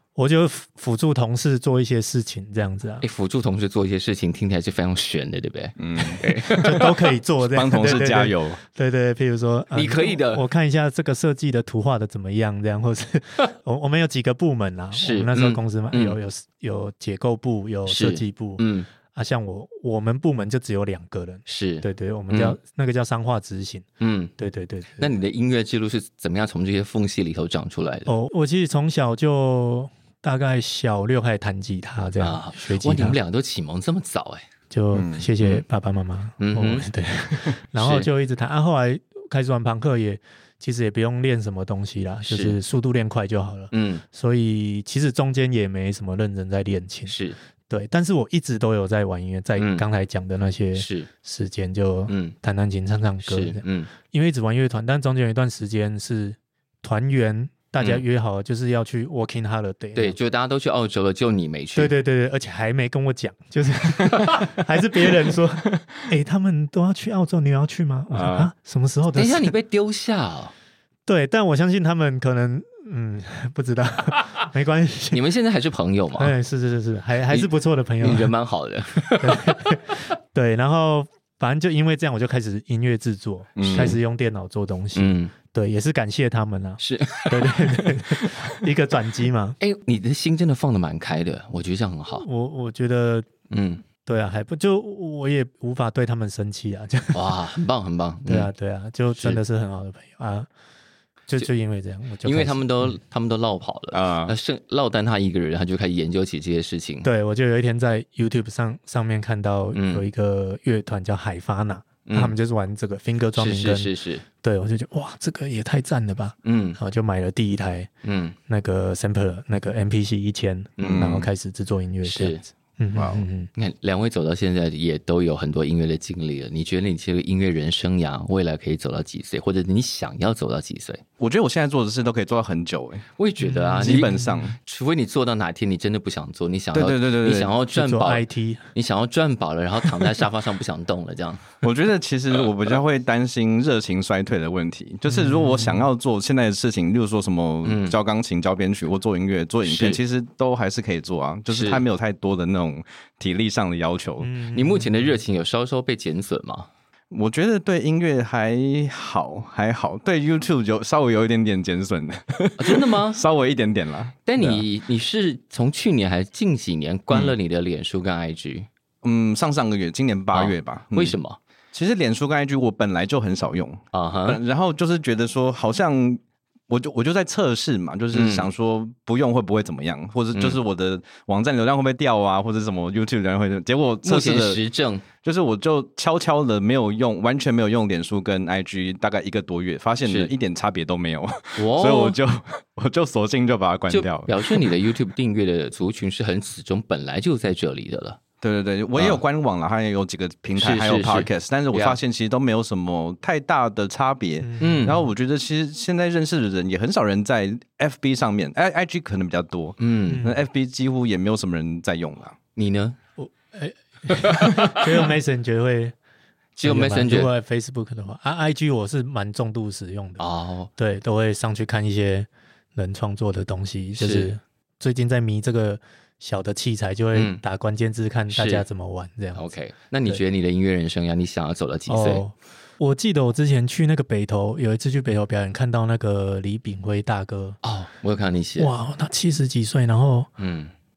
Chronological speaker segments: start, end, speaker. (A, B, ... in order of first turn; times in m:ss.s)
0:00.2-0:03.0 A
0:03.0-0:06.9 B
0:05.8-0:06.8 C
0:06.5-0:23.8 A
0:07.5-0:08.6 C
0:09.7-0:10.4 B
0:14.9-0:16.2 B
0:17.9-0:18.9 B
0:21.5-0:22.6 B
0:24.0-0:24.3 B
0:24.4-0:25.1 A
0:25.0-0:28.1 B
0:28.0-0:33.2 A
0:32.2-0:34.4 B
0:34.7-0:47.2 A
0:34.9-0:35.3 C
0:35.4-0:35.6 B
0:36.4-0:36.9 B
0:37.8-0:38.1 B
0:42.2-0:42.6 B
0:43.7-0:44.0 B
0:47.1-0:47.4 B
0:47.7-1:00.2 A
0:49.6-0:49.8 B
0:50.7-0:51.1 B
0:52.1-0:52.3 B
0:53.2-0:53.9 B
0:59.9-1:01.9 B
1:01.7-1:09.5 A
1:08.1-1:08.5 C
1:09.1-1:10.5 B
1:11.1-1:15.2 A
1:15.1-1:16.3 B
1:16.2-1:18.3 A
1:18.0-1:19.8 B
1:19.2-1:29.6 A
1:23.6-1:24.0 C
1:23.6-1:24.0 B
1:24.9-1:25.3 B
1:26.8-1:28.3 B
1:29.6-1:32.2 B
1:32.2-1:33.3 A
1:33.5-1:33.8 B
1:34.0-1:37.3 A
1:37.1-1:38.5 B
1:38.2-1:40.5 A
1:39.2-1:39.4 B
1:41.3-1:42.9 A
1:42.2-1:47.1 B
1:43.9-1:44.3 C
1:47.0-1:57.9 A
1:49.7-1:50.0 B
1:52.0-1:52.3 B
1:53.4-1:54.2 B
1:56.4-1:56.8 B
1:58.0-1:58.4 B
1:58.5-2:03.5 A
2:00.8-2:01.2 B
2:00.8-2:01.3 C
2:02.0-2:02.4 B
2:02.9-2:03.2 C
2:03.5-2:11.0 B
2:11.2-2:13.0 C
2:13.2-2:21.5 B
2:13.4-2:14.4 A
2:13.8-2:14.6 C
2:16.7-2:17.5 C
2:17.7-2:18.7 A
2:21.6-2:34.3 C
2:25.1-2:25.9 A
2:27.6-2:28.0 B
2:29.6-2:30.0 B
2:31.5-2:31.8 B
2:34.2-2:35.2 A
2:34.5-2:36.7 B
2:37.1-2:44.6 C
2:42.6-2:43.2 B
2:44.2-2:48.7 B
2:49.0-2:51.2 C
2:50.3-2:51.4 B
2:51.7-3:04.6 C
2:53.9-2:54.4 B
2:58.1-2:58.5 B
3:04.0-3:05.0 B
3:05.2-3:14.7 C
3:10.0-3:10.3 B
3:11.6-3:12.2 B
3:13.9-3:18.2 B
3:18.4-3:32.4 C
3:20.6-3:22.0 B
3:24.4-3:25.0 A
3:24.6-3:25.0 B
3:29.8-3:30.3 B
3:30.1-3:30.4 A
3:32.6-3:33.0 B
3:33.2-3:35.9 A
3:34.2-3:34.8 B
3:36.6-3:37.3 B
3:36.6-3:40.2 A
3:40.2-3:40.7 B
3:40.8-3:49.4 A
3:44.0-3:44.3 B
3:47.1-3:47.4 B
3:48.3-3:48.6 B
3:49.3-3:52.2 B
3:51.9-3:57.6 A
3:57.6-3:58.7 B
3:58.6-4:00.3 A
4:00.4-4:00.7 B